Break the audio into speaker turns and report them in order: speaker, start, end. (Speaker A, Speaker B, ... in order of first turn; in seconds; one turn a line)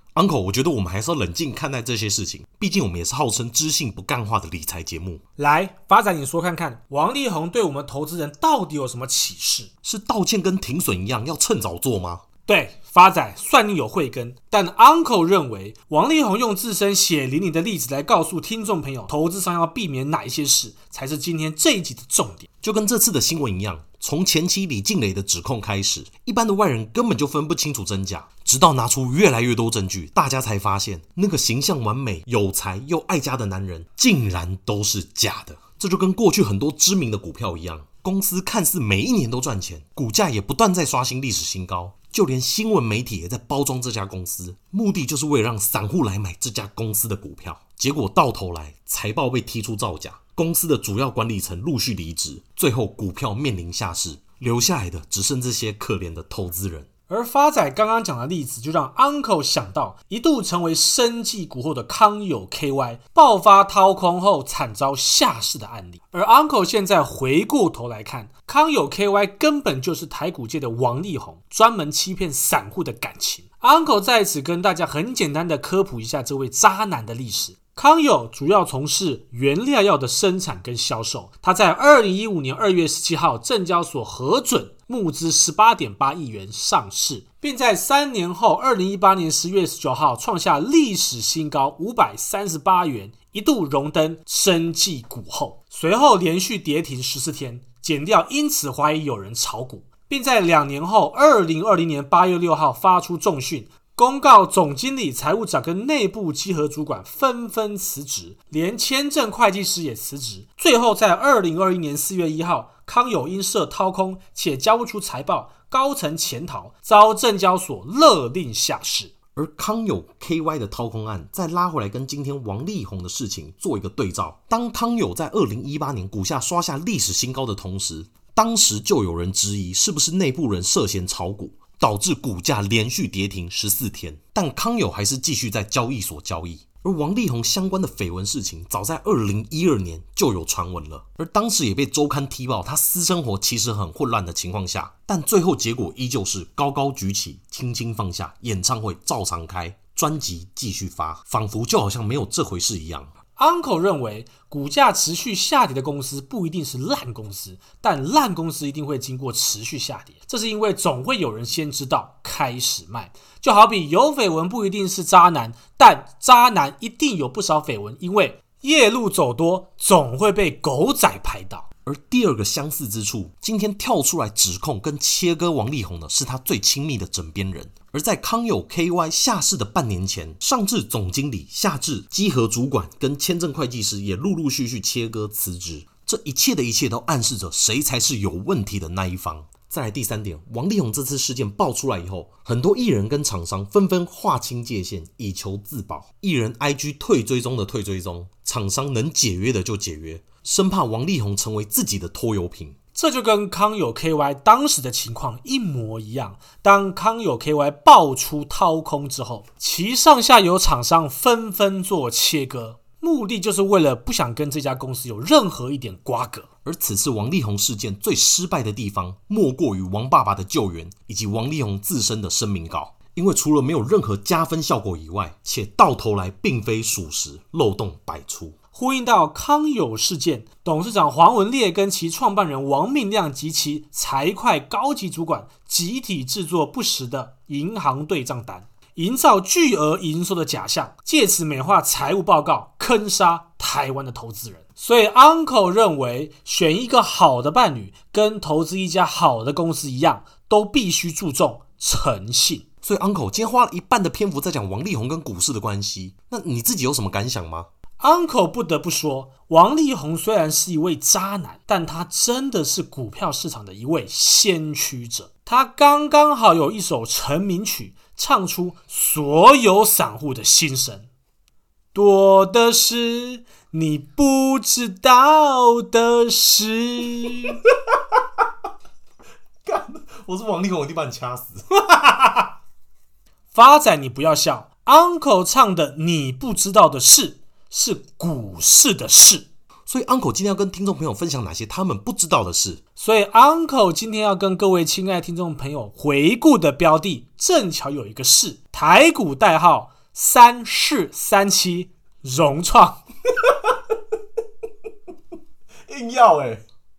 Speaker A: 0.1-5.2
Speaker B: 5.4-9.7
Speaker A: 9.8-12.2
Speaker B: 12.5-22.5
Speaker A: 22.6-56.9
Speaker B: 57.1-119.1
Speaker A: 119.4-153.1
Speaker B: 153.4-171.7
Speaker A: 171.9-202.8
Speaker B: 202.9-216.5
Speaker A: 216.7-228.5
Speaker B: 228.7-252.6
Speaker A: 252.8-257.7
Speaker B: 258.0-271.1
Speaker B: 271.9-277.6
Speaker A: 279.6-281.6
Speaker B: 283.5-289.5
Speaker A: 289.9-292.8
Speaker B: 293.0-303.0
Speaker A: 305.9-306.6